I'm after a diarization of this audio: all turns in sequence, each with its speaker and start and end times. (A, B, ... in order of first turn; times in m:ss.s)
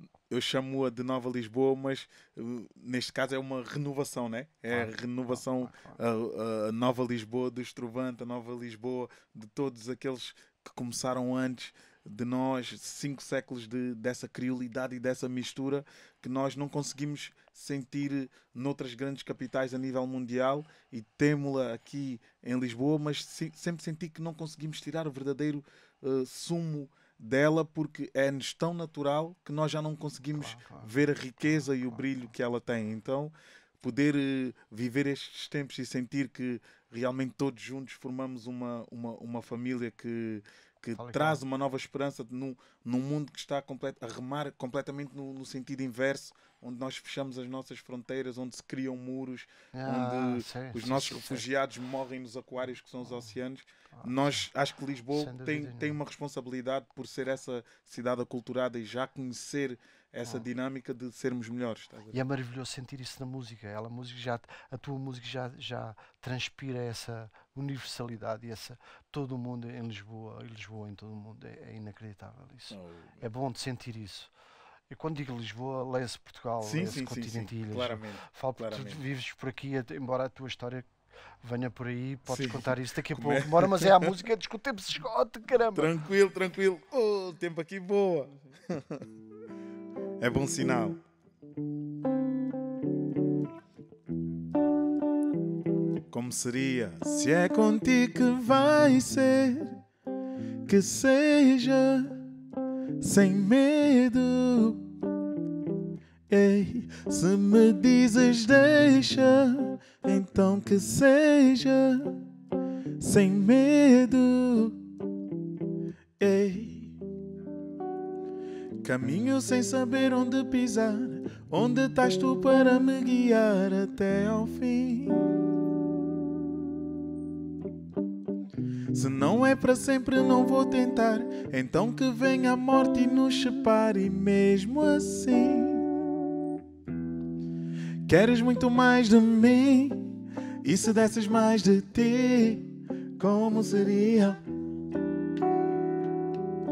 0:00.3-1:02.2 A
0:04.7-0:06.0 B
0:30.3-0:32.3 B
0:41.0-0:41.4 B
0:49.7-0:51.5 B
0:53.0-0:53.3 B
0:53.9-0:54.5 B
0:55.1-0:56.0 B
1:02.1-1:14.3 B
1:12.7-1:13.2 A
1:14.9-1:20.9 B
1:16.6-1:19.0 A
1:21.4-1:25.9 B
1:22.3-1:24.2 A
1:25.7-1:29.1 A
1:30.2-1:31.0 A
1:36.1-1:39.8 A
1:40.6-1:42.2 A
1:43.0-1:44.9 A
1:46.3-1:52.2 A
1:53.0-1:54.8 A
1:56.2-1:57.0 A
1:58.8-2:05.3 A
2:08.9-2:15.9 A
2:18.0-2:20.1 A
2:20.6-2:24.4 A